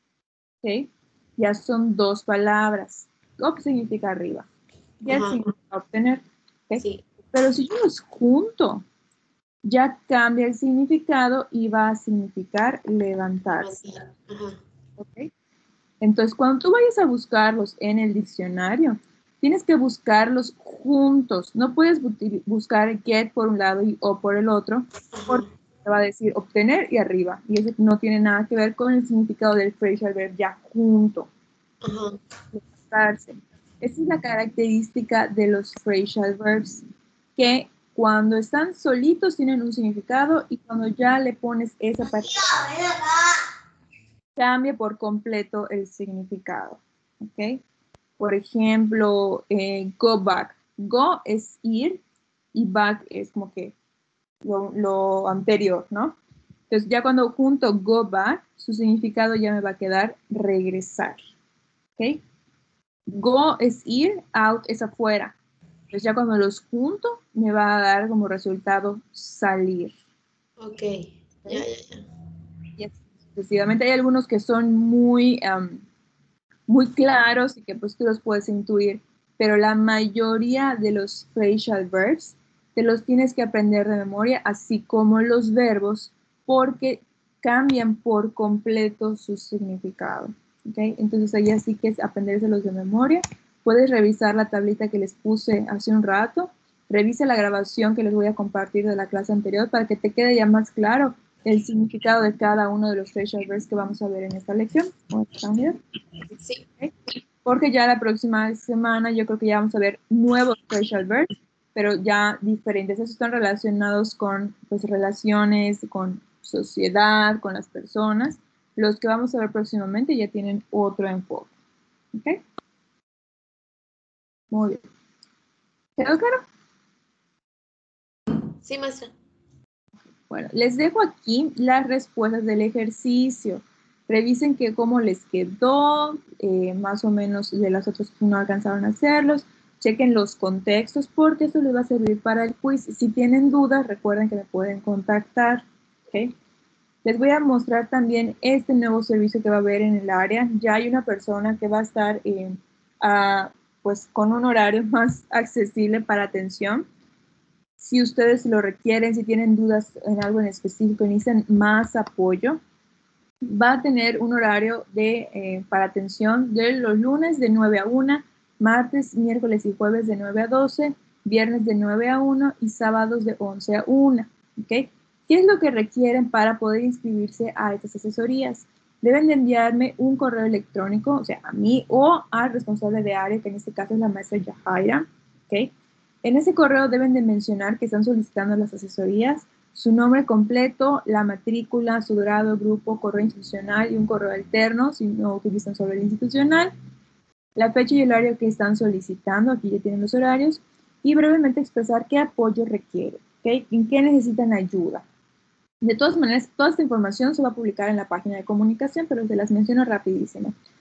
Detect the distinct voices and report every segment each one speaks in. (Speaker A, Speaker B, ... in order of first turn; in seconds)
Speaker A: 0.6-4.5, 5.0-8.8, 9.6-13.9, 15.0-15.3, 16.0-31.3, 32.5-36.8, 37.4-42.6, 44.4-47.6, 48.2-52.0, 52.5-53.8, 54.4-56.2, 56.7-61.2, 63.1-65.4, 65.9-70.0, 72.8-75.8, 76.7-105.8, 107.4-121.5, 122.1-122.4, 124.5-124.8, 126.0-126.4, 130.3-146.3, 147.0-156.9, 157.8-162.6, 163.4-185.7, 186.2-196.7, 197.6-205.0, 205.8-210.6
Speaker B: 5.1-5.5, 6.8-7.1, 13.6-14.6, 25.1-25.4, 31.8-32.2, 70.6-72.1, 128.6-129.1